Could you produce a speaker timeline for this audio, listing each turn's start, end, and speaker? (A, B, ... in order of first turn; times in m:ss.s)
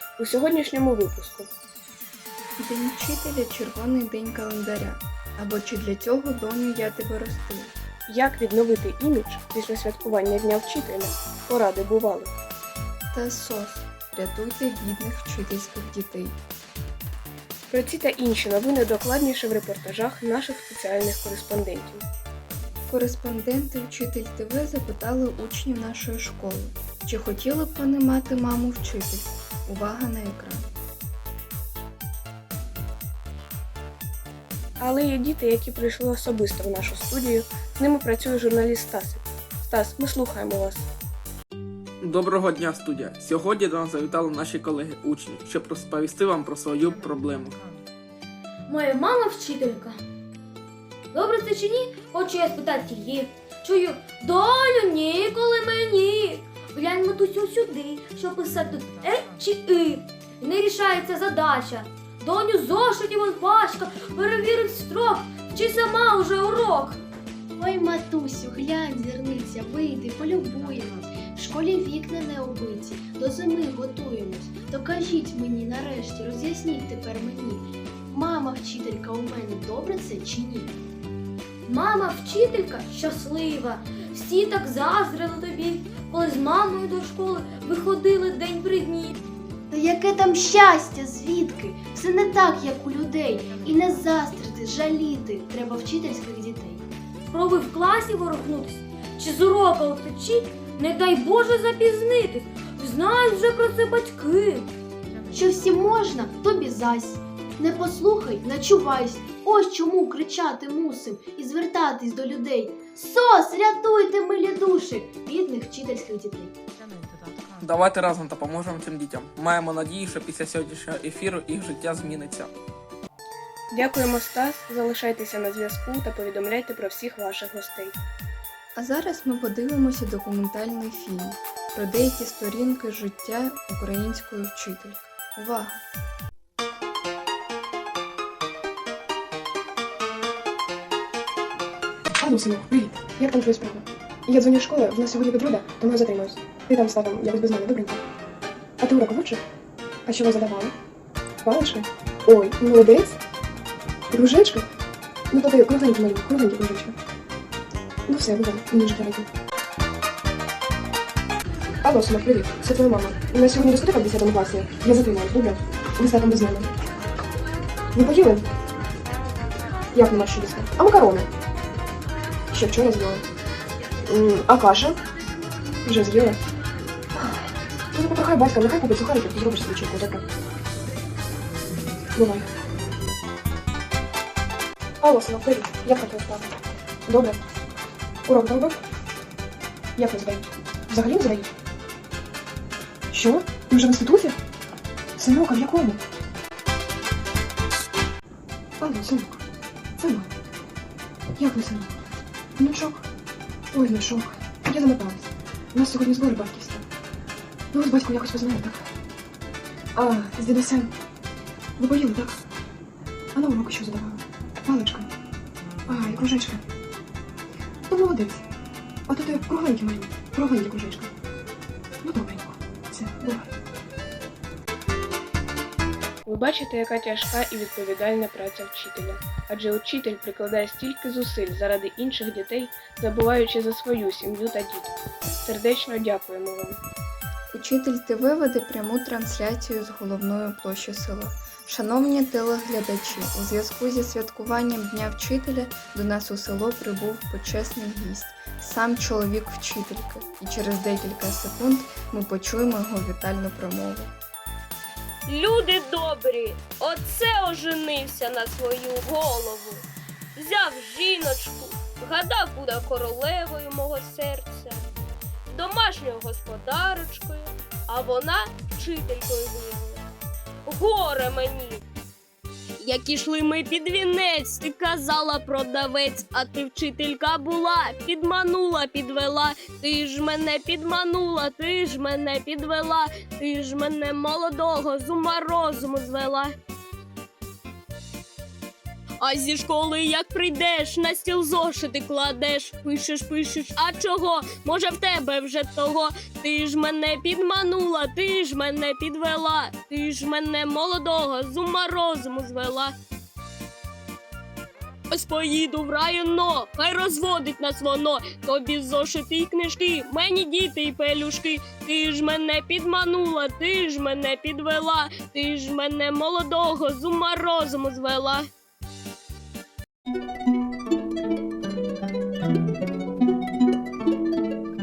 0:00.2-0:01.5 A
0:02.6-0:07.7 B
0:08.1-0:12.3 A
0:13.1-0:16.4 B
0:17.7-0:22.0 A
0:22.9-0:30.7 B
0:34.8-0:40.9 A
0:42.0-0:47.6 C
0:48.7-0:50.0 D
0:51.1-1:07.0 D
1:07.6-1:20.7 E
1:21.7-1:29.2 D
1:29.7-1:36.9 E
1:37.3-1:44.7 D
1:45.3-1:56.6 E
1:57.6-2:02.5 C
2:03.7-2:08.0 A
2:08.8-2:15.8 B
2:22.2-2:28.0 F
2:28.8-2:29.4 F
2:30.1-2:30.7 F
2:31.4-2:33.2 F
2:34.1-2:34.7 F
2:35.3-2:37.0 F
2:38.1-2:39.3 F
2:41.8-2:46.7 F
2:47.9-2:48.5 F
2:49.9-2:51.3 F
2:52.5-2:53.2 F
2:54.0-2:55.0 F
2:55.8-2:56.4 F
2:57.1-3:00.2 F
3:02.1-3:02.5 F
3:05.0-3:06.5 F
3:07.1-3:07.4 F
3:08.2-3:08.8 F
3:10.0-3:11.5 F
3:13.1-3:14.4 F
3:15.2-3:16.0 F
3:18.8-3:19.4 F
3:20.0-3:20.3 F
3:21.4-3:21.9 F
3:22.6-3:23.0 F
3:23.7-3:26.8 F
3:27.7-3:28.9 F
3:29.9-3:30.9 F
3:31.8-3:32.4 F
3:33.3-3:35.1 F
3:35.9-3:36.6 F
3:37.9-3:38.4 F
3:39.1-3:41.1 F
3:42.0-3:43.5 F
3:46.2-3:56.8 A
3:57.5-4:14.1 B
4:15.3-4:19.8 G
4:20.4-4:24.8 G
4:25.5-4:30.1 G
4:30.7-4:31.8 G
4:32.8-4:46.5 G
4:49.2-5:02.9 G
5:05.1-5:18.5 G